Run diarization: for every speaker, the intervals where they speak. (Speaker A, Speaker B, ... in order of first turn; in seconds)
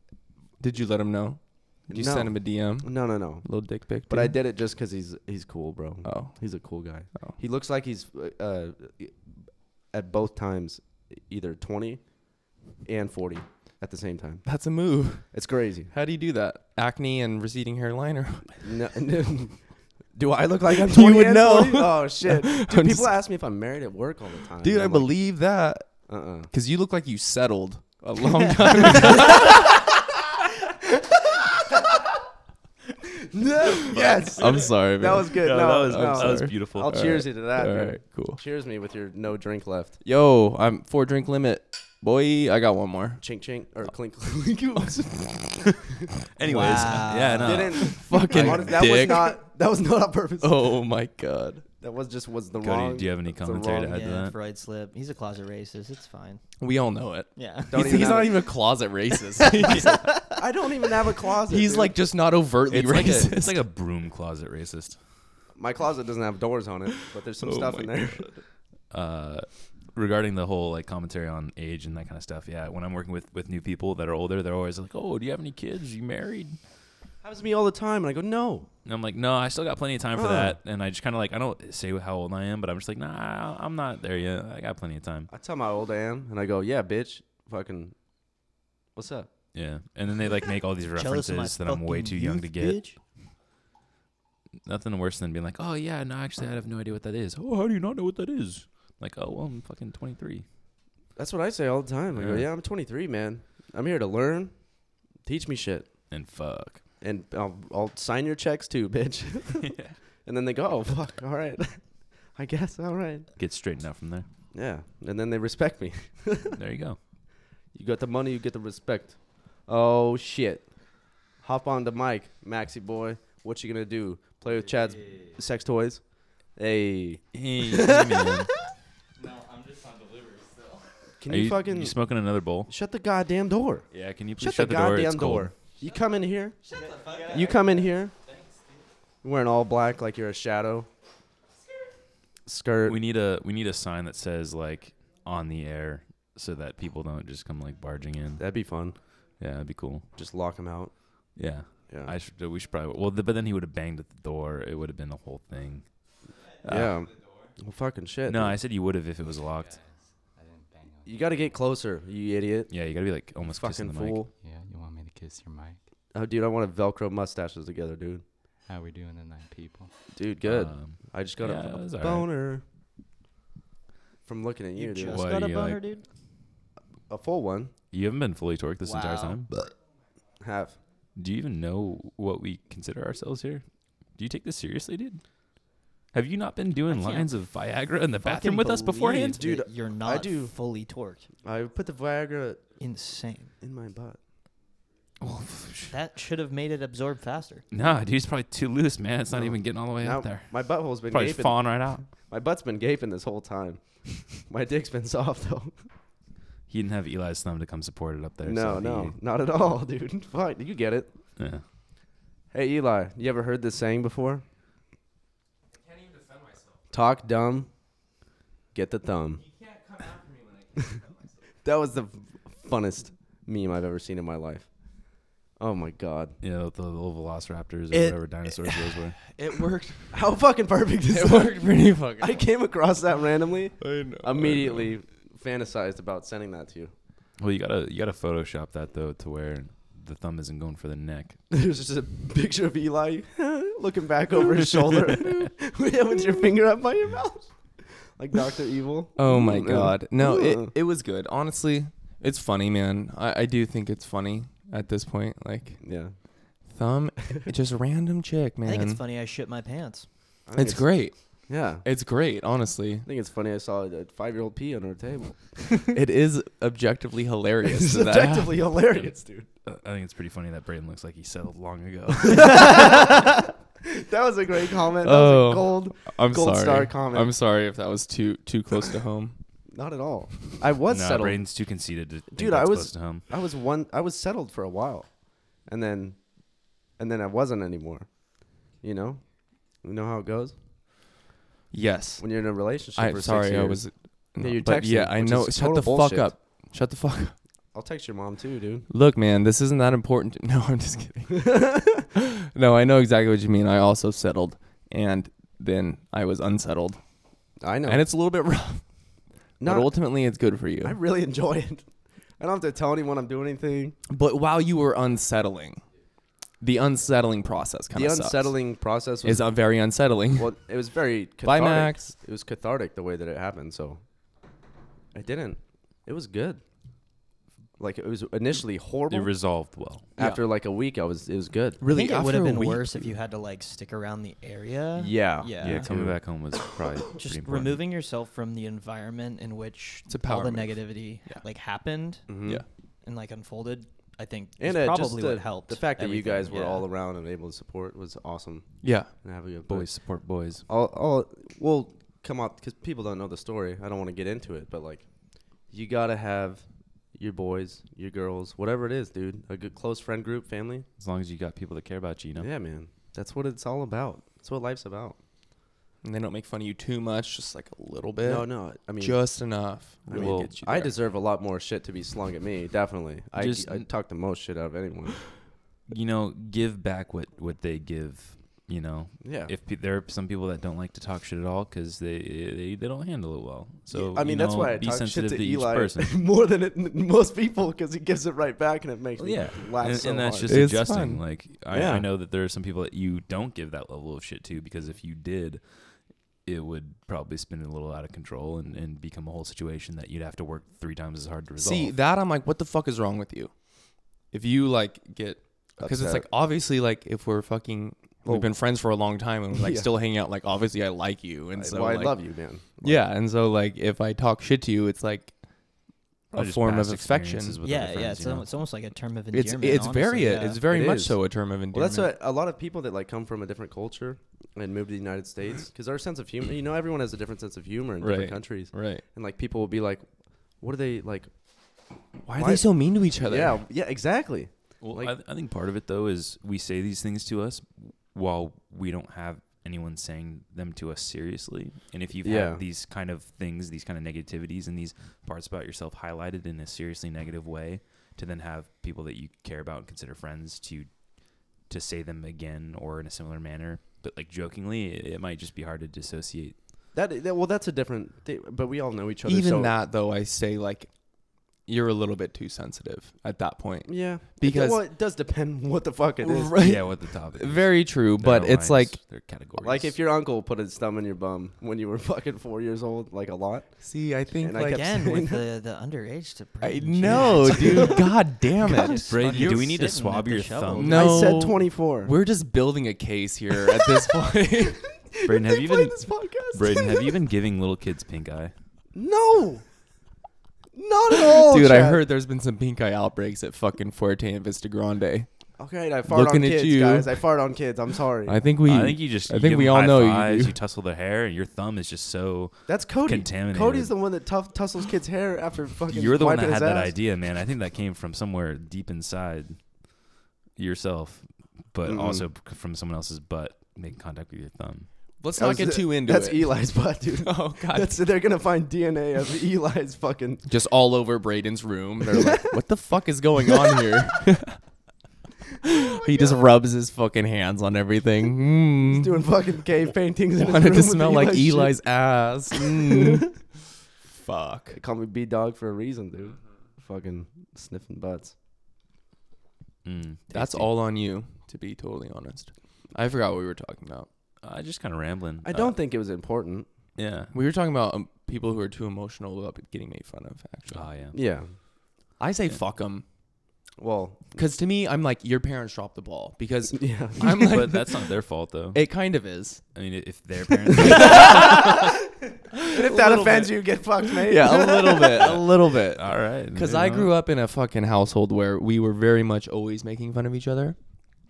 Speaker A: 0.6-2.9, 3.4-4.3, 6.0-6.3, 14.4-15.3, 15.9-18.6, 20.7-23.1, 24.6-25.9, 26.5-29.6, 33.9-38.4, 40.0-43.2, 44.8-45.0, 47.8-49.4, 50.4-51.6, 56.6-60.1, 61.5-63.6, 67.4-68.4, 228.9-230.3, 231.1-232.4, 233.8-234.9, 249.2-255.8, 256.7-259.0, 260.6-261.1, 261.8-263.1, 265.9-268.6, 275.0-279.4, 291.7-292.2, 292.9-297.3, 298.9-301.5, 302.1-307.0, 307.9-308.8, 309.6-311.0, 314.1-315.8, 316.6-318.5, 319.2-320.5, 321.4-322.1, 330.2-330.4, 331.8-333.2, 340.1-341.4, 348.8-349.1, 366.0-368.5, 369.0-370.9, 390.5-391.2, 401.6-403.5, 404.3-412.1, 412.8-415.3, 416.3-417.6, 419.3-422.1, 428.0-429.0, 432.2-433.6, 459.2-460.9, 461.6-464.8, 466.2-469.0, 473.8-475.1, 476.6-479.6, 480.7-484.8, 491.2-495.3, 496.1-497.2, 498.2-500.6, 515.2-518.0, 520.5-524.6, 525.6-529.2, 530.4-533.4, 534.1-534.8, 540.3-544.1, 547.3-550.9, 552.2-553.0, 554.3-558.1, 558.7-559.6, 560.7-561.7, 562.5-570.8
Speaker B: 1.9-3.4, 4.1-9.2, 9.9-12.0, 12.8-14.4, 15.3-15.9, 18.6-19.6, 20.1-25.1, 26.1-26.5, 28.7-29.8, 30.8-32.1, 33.0-40.0, 43.2-46.1, 47.4-50.6, 51.8-54.0, 57.7-58.5, 60.3-62.0, 62.9-63.3, 65.5-68.3, 77.2-78.7, 80.2-80.5, 85.3-87.9, 88.9-89.3, 101.2-104.5, 105.2-105.9, 107.0-109.7, 110.2-111.8, 112.3-113.3, 114.5-116.6, 117.7-120.7, 121.4-126.0, 126.5-128.5, 131.2-131.9, 132.7-133.8, 134.4-138.1, 139.2-140.9, 142.4-143.0, 148.4-149.0, 150.1-151.0, 151.9-152.1, 156.6-158.6, 161.1-162.7, 163.4-164.3, 166.1-168.2, 170.1-172.6, 174.2-175.2, 177.1-177.7, 180.4-180.8, 189.3-190.5, 191.4-192.8, 193.6-194.2, 199.3-205.8, 208.4-211.1, 212.5-214.4, 216.9-217.7, 218.7-219.4, 221.6-224.7, 225.6-226.3, 230.1-236.9, 241.5-247.5, 248.2-250.7, 255.8-256.1, 260.4-261.8, 263.0-265.9, 267.6-269.5, 272.2-277.3, 279.7-281.4, 282.3-285.1, 285.6-286.2, 287.0-288.1, 288.8-289.2, 289.8-290.5, 292.2-293.8, 294.4-296.3, 297.7-298.9, 301.3-302.1, 307.6-308.1, 309.6-310.0, 310.8-311.8, 312.4-313.9, 317.9-319.6, 320.3-324.0, 325.1-326.6, 327.8-329.3, 330.1-331.8, 334.9-336.1, 342.3-342.6, 344.6-348.7, 349.2-349.9, 350.7-355.1, 355.7-356.6, 357.1-360.9, 362.4-365.2, 368.2-369.4, 370.1-375.3, 379.2-379.5, 383.9-390.7, 391.7-392.1, 405.8-406.2, 408.2-408.5, 409.5-409.9, 411.5-413.0, 420.6-421.2, 421.7-430.0, 430.6-431.3, 432.3-432.7, 433.2-435.1, 442.2-442.6, 456.9-459.8, 463.9-466.6, 469.6-473.7, 474.4-475.4, 477.0-478.1, 480.8-482.1, 484.9-487.1, 488.9-489.6, 490.7-492.0, 495.6-498.4, 502.7-506.9, 511.9-512.2, 515.4-520.5, 522.1-522.6, 523.5-523.8, 525.6-526.4, 528.9-533.3, 534.7-538.3, 545.4-546.7, 551.1-551.5, 553.8-554.4, 556.7-557.6, 560.9-561.8, 562.7-565.4
Speaker C: 33.9-34.6, 35.2-37.1, 45.6-48.6, 52.6-54.3, 62.7-65.0, 68.9-76.6, 78.8-85.3, 89.5-92.8, 94.6-100.4, 102.1-102.5, 106.1-106.8, 109.6-109.9, 113.4-114.2, 116.5-117.0, 127.3-128.5, 131.3-132.7, 133.9-135.5, 142.8-148.4, 149.4-150.1, 151.3-155.9, 156.6-156.9, 158.3-159.8, 162.7-164.2, 170.4-172.3, 175.1-175.8, 177.9-179.5, 181.2-183.6, 184.2-185.2, 186.1-189.4, 195.2-195.9, 197.7-200.5, 201.1-202.0, 206.7-209.1, 211.4-211.6, 226.4-229.2, 237.4-241.4, 269.6-273.0, 280.9-283.3, 329.1-330.0, 335.6-337.8, 349.7-350.6, 361.0-362.5, 370.1-370.9, 373.4-373.9, 375.9-386.1, 389.2-395.6, 396.4-401.9, 416.3-418.5, 434.8-450.9, 451.6-456.6, 466.6-469.9, 479.0-481.3, 485.2-486.0, 486.5-488.5, 498.6-503.9, 505.9-509.6, 510.6-514.9, 539.8-540.7, 544.4-545.8, 547.0-547.3, 550.7-551.2, 557.3-558.9, 559.7-561.9, 565.2-567.1
Speaker D: 46.4-47.7, 53.9-56.4, 57.4-58.2, 59.4-60.3, 91.0-93.0, 174.8-176.0, 178.9-179.3, 186.9-187.3, 188.2-191.3, 192.8-193.5, 195.9-197.6, 258.6-260.1, 331.9-335.9, 337.1-342.2, 343.0-346.9, 417.6-420.6, 474.7-481.1
Speaker E: 124.9-125.3, 129.2-130.9, 136.6-138.8, 159.6-161.6, 164.4-165.8, 168.7-169.9